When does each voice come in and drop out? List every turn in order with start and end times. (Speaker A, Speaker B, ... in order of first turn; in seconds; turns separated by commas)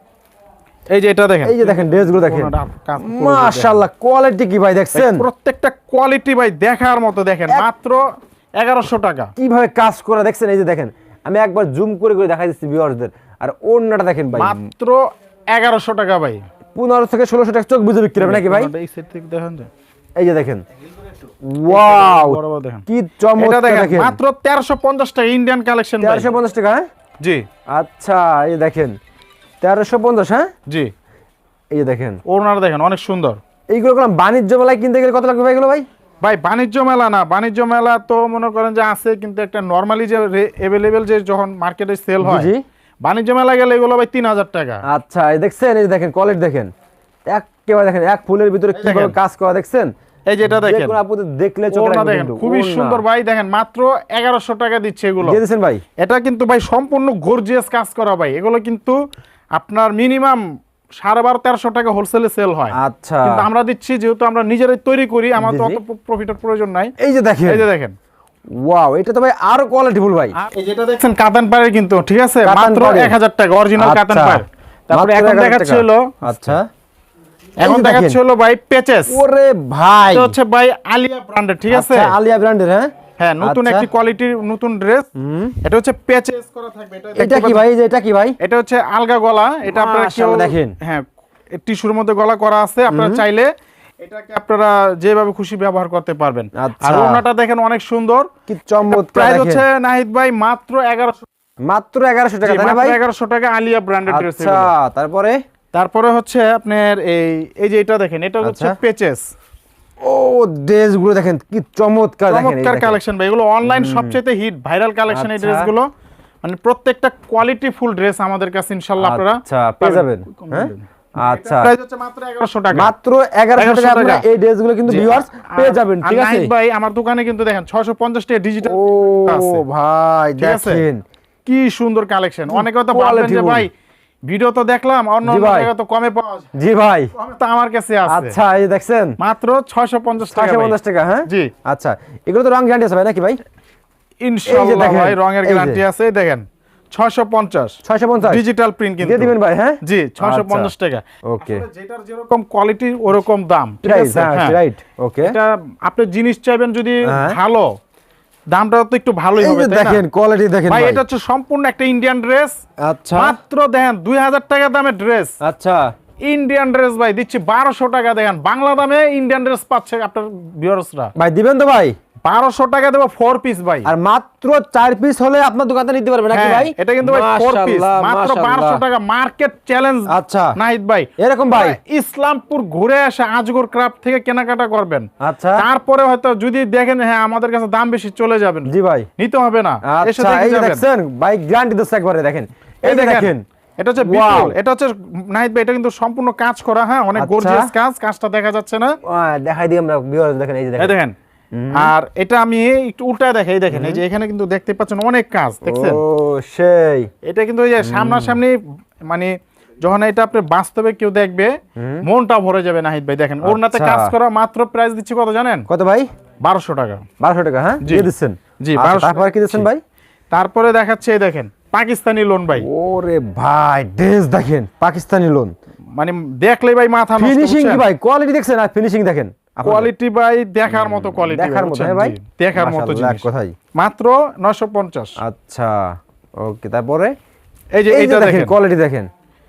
Speaker A: 0.9-3.8, Speaker B: 1.4-5.3, Speaker A: 4.9-8.1, Speaker A: 8.6-9.3, Speaker B: 9.4-14.6, Speaker A: 14.3-16.4, Speaker B: 16.7-18.7, Speaker A: 18.2-19.7, Speaker B: 20.2-20.6, Speaker B: 21.4-24.2, Speaker A: 21.7-22.8, Speaker A: 23.4-26.3, Speaker B: 26.0-26.9, Speaker B: 27.7-29.0, Speaker B: 29.6-30.5, Speaker B: 31.7-32.2, Speaker A: 32.2-33.4, Speaker B: 33.7-35.9, Speaker A: 36.2-42.5, Speaker B: 42.2-42.6, Speaker A: 43.0-44.8, Speaker B: 44.9-46.7, Speaker B: 47.3-49.9, Speaker A: 48.7-49.1, Speaker A: 50.3-51.0, Speaker B: 50.4-53.0, Speaker A: 51.7-55.4, Speaker B: 55.2-55.8, Speaker A: 56.0-59.0, Speaker A: 59.5-60.4, Speaker A: 61.0-66.9, Speaker B: 62.7-63.4, Speaker B: 65.4-65.8, Speaker B: 67.0-67.7, Speaker A: 67.4-67.9, Speaker B: 68.5-70.3, Speaker A: 70.4-76.6, Speaker B: 72.4-73.2, Speaker B: 73.8-76.7, Speaker A: 77.6-79.2, Speaker B: 77.6-78.2, Speaker B: 79.1-80.3, Speaker A: 80.1-82.2, Speaker B: 81.7-83.9, Speaker A: 83.2-85.1, Speaker B: 85.2-85.5, Speaker A: 85.6-87.6, Speaker B: 87.2-88.4, Speaker A: 88.4-93.5, Speaker B: 89.7-90.7, Speaker B: 92.9-93.2, Speaker A: 94.0-98.3, Speaker B: 96.6-97.2, Speaker B: 98.5-99.6, Speaker A: 98.9-101.3, Speaker B: 101.7-103.0, Speaker A: 102.4-104.7, Speaker B: 104.1-105.4, Speaker A: 105.7-109.2, Speaker B: 108.4-108.8, Speaker B: 110.0-113.0, Speaker A: 112.3-115.9, Speaker B: 113.6-114.2, Speaker B: 115.1-115.7, Speaker A: 116.4-122.9, Speaker B: 119.0-121.7, Speaker B: 122.7-126.5, Speaker A: 123.5-124.2, Speaker A: 124.9-129.6, Speaker B: 128.6-131.0, Speaker A: 130.4-130.8, Speaker A: 131.4-133.7, Speaker B: 132.5-133.7, Speaker A: 134.2-136.5, Speaker B: 135.2-135.7, Speaker B: 136.5-137.1, Speaker A: 137.1-138.4, Speaker B: 138.1-139.2, Speaker A: 139.2-140.8, Speaker B: 140.2-143.4, Speaker A: 141.3-141.5, Speaker A: 144.2-154.6, Speaker B: 144.5-145.8, Speaker B: 147.8-148.4, Speaker B: 149.0-150.7, Speaker B: 151.2-151.7, Speaker B: 153.8-155.4, Speaker A: 155.2-157.7, Speaker B: 157.0-157.4, Speaker A: 158.5-160.0, Speaker B: 159.4-161.0, Speaker A: 160.7-162.6, Speaker B: 162.8-163.4, Speaker A: 163.1-165.3, Speaker B: 165.4-165.9, Speaker A: 166.2-171.1, Speaker B: 171.2-171.9, Speaker A: 172.2-173.9, Speaker B: 173.8-178.8, Speaker A: 176.3-190.8, Speaker B: 180.1-180.6, Speaker B: 181.2-181.8, Speaker B: 185.2-185.6, Speaker B: 188.7-189.1, Speaker B: 189.8-193.4, Speaker A: 192.8-198.9, Speaker B: 194.0-194.6, Speaker B: 197.2-197.7, Speaker B: 199.0-200.9, Speaker A: 200.8-201.1, Speaker B: 201.5-201.9, Speaker A: 201.7-206.0, Speaker B: 203.7-204.0, Speaker B: 205.6-207.1, Speaker A: 207.2-215.7, Speaker B: 207.8-208.4, Speaker B: 211.8-212.0, Speaker B: 213.4-214.1, Speaker B: 215.7-216.1, Speaker A: 216.4-217.0, Speaker B: 217.2-219.8, Speaker A: 217.8-218.1, Speaker A: 218.6-219.7, Speaker A: 220.3-222.7, Speaker B: 222.6-225.5, Speaker A: 226.0-227.8, Speaker B: 227.2-229.9, Speaker A: 229.6-235.2, Speaker B: 230.7-233.5, Speaker B: 235.2-237.1, Speaker A: 237.7-238.5, Speaker B: 237.9-239.1